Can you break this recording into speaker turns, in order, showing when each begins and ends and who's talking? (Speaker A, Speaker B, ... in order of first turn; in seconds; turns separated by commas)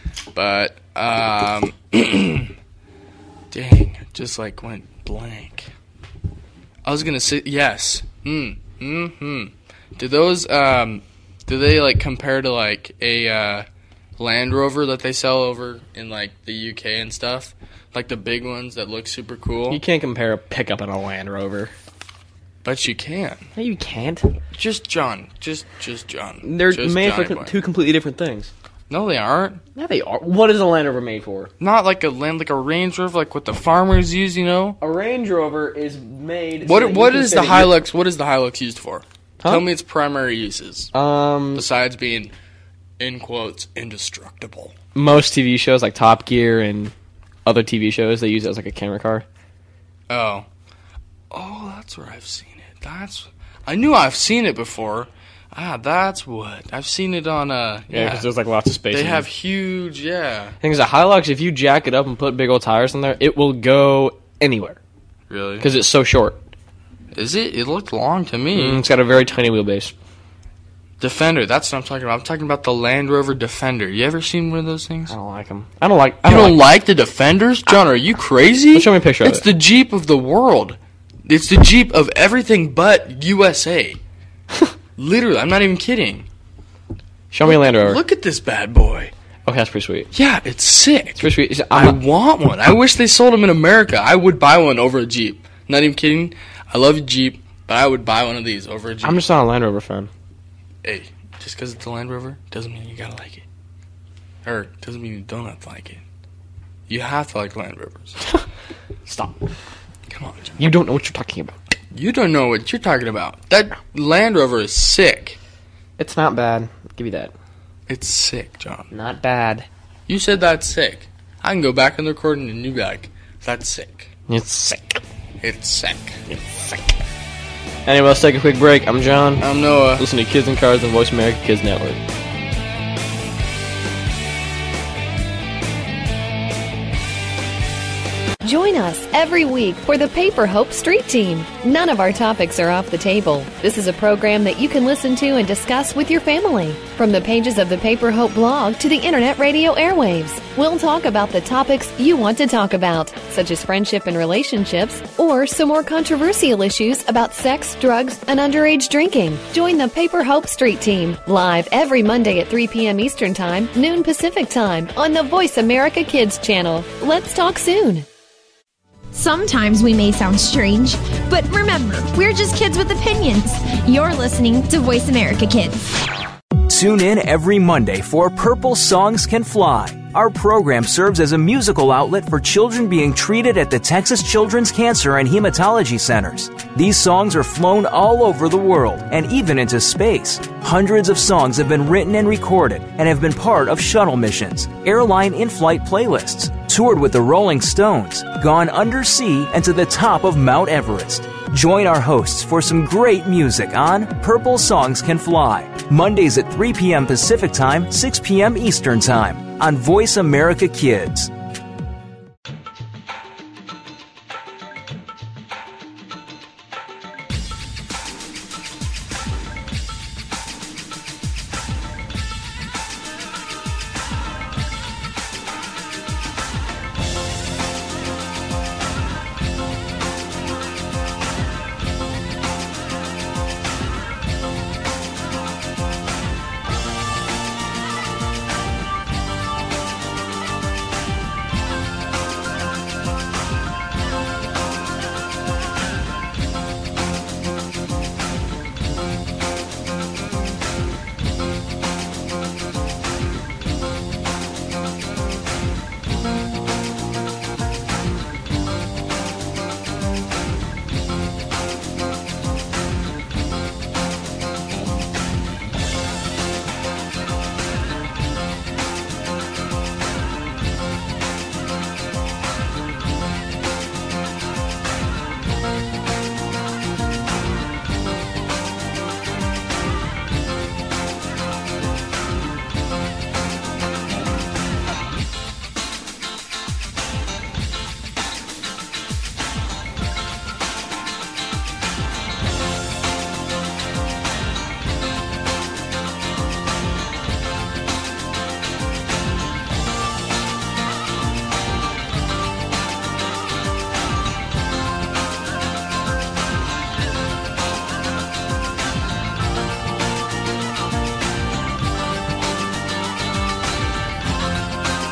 Speaker A: 0.3-2.5, Speaker A: 3.5-5.7, Speaker A: 6.8-13.7, Speaker A: 14.2-19.8, Speaker B: 19.7-21.7, Speaker A: 22.6-23.5, Speaker B: 23.6-24.4, Speaker A: 24.5-27.6, Speaker B: 26.4-28.5, Speaker A: 28.9-29.6, Speaker B: 29.8-31.5, Speaker A: 31.6-34.8, Speaker B: 34.8-37.7, Speaker A: 36.6-40.9, Speaker B: 40.9-41.6, Speaker A: 41.5-42.3, Speaker A: 43.0-44.8, Speaker B: 45.0-46.9, Speaker B: 47.5-49.3, Speaker A: 50.1-50.5, Speaker A: 51.3-58.3, Speaker B: 57.9-59.3, Speaker A: 58.9-60.6, Speaker B: 60.6-64.8, Speaker A: 65.3-65.7, Speaker B: 65.6-66.4, Speaker A: 67.1-68.8, Speaker B: 68.5-69.9, Speaker A: 71.0-75.1, Speaker B: 75.1-76.6, Speaker A: 76.2-84.0, Speaker B: 78.7-79.5, Speaker A: 85.0-86.3, Speaker B: 87.3-88.0, Speaker A: 87.4-89.1, Speaker B: 89.5-90.1, Speaker A: 90.1-99.2, Speaker B: 91.2-92.0, Speaker B: 99.0-100.1, Speaker A: 100.8-103.5, Speaker A: 104.4-106.0, Speaker A: 106.9-108.2, Speaker B: 109.1-109.4, Speaker A: 110.1-110.6, Speaker B: 110.6-111.5, Speaker A: 111.9-115.4, Speaker B: 116.0-117.3, Speaker A: 117.9-118.9, Speaker B: 118.9-119.7, Speaker A: 120.1-124.1, Speaker B: 124.3-125.0, Speaker A: 125.4-126.2, Speaker B: 126.3-126.9, Speaker B: 127.9-132.0, Speaker A: 129.4-130.0, Speaker C: 138.4-168.1, Speaker D: 169.1-175.8, Speaker E: 176.7-211.3